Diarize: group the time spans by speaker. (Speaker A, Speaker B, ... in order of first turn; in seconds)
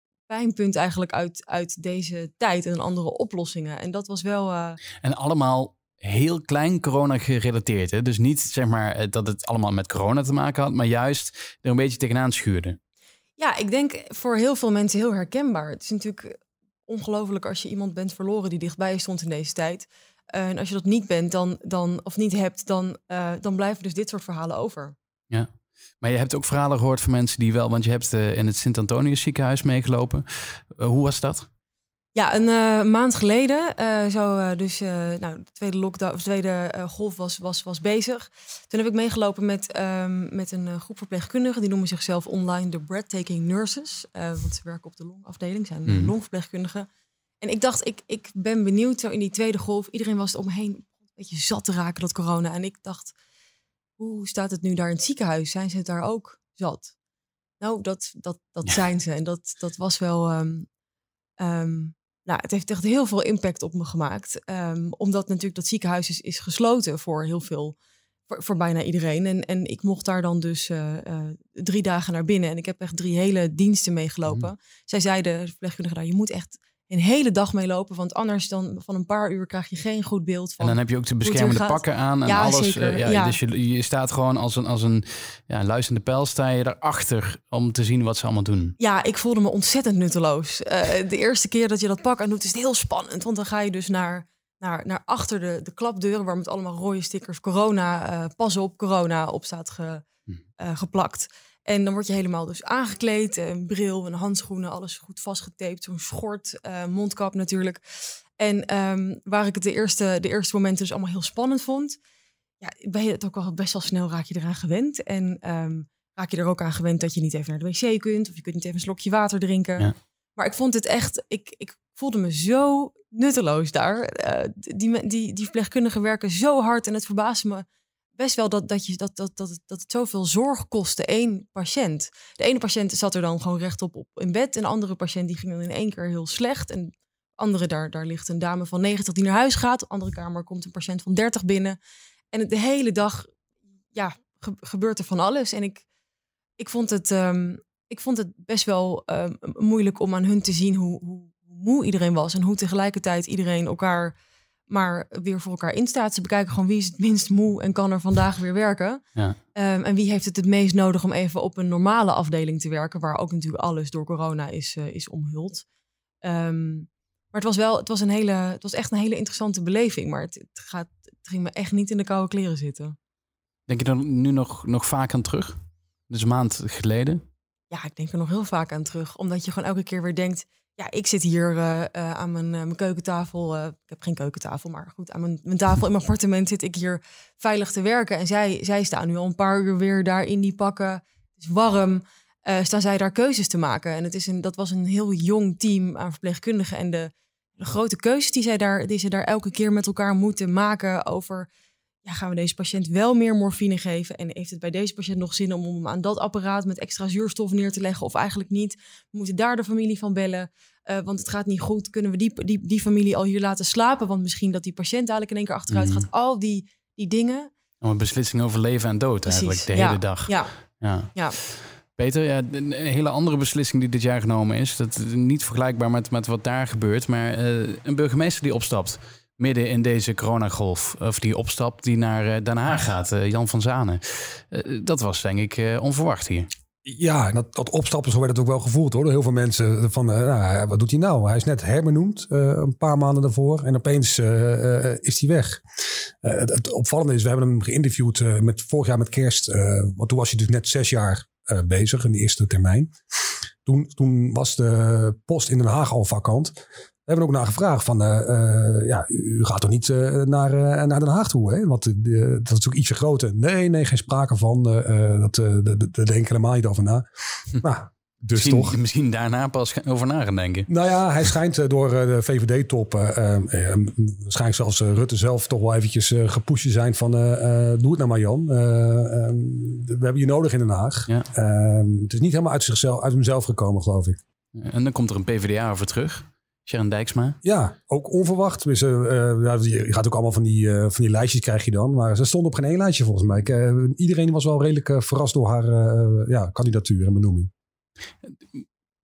Speaker A: 0.3-4.8, 13.4-24.9, 32.1-46.9, 47.4-53.1, 54.0-56.9, 57.6-60.7, 61.4-67.7, 68.3-83.4, 88.8-100.0, 100.6-107.8, 108.4-112.0, 112.6-127.7, 128.2-141.8, 142.3-143.3, 143.9-145.8, 146.6-154.1, 154.7-159.0, 159.5-165.6, 166.2-172.9, 177.7-201.5, 202.0-217.5, 219.2-220.5
Speaker B: 5.0-12.8, 25.3-31.5, 45.9-46.1, 80.6-88.8, 173.7-175.6, 176.1-177.2, 215.7-216.1, 217.8-236.5, 268.3-270.7, 284.5-287.4
Speaker C: 236.8-245.6, 246.2-252.9, 253.6-267.1, 267.6-268.8, 270.7-284.2, 287.4-297.5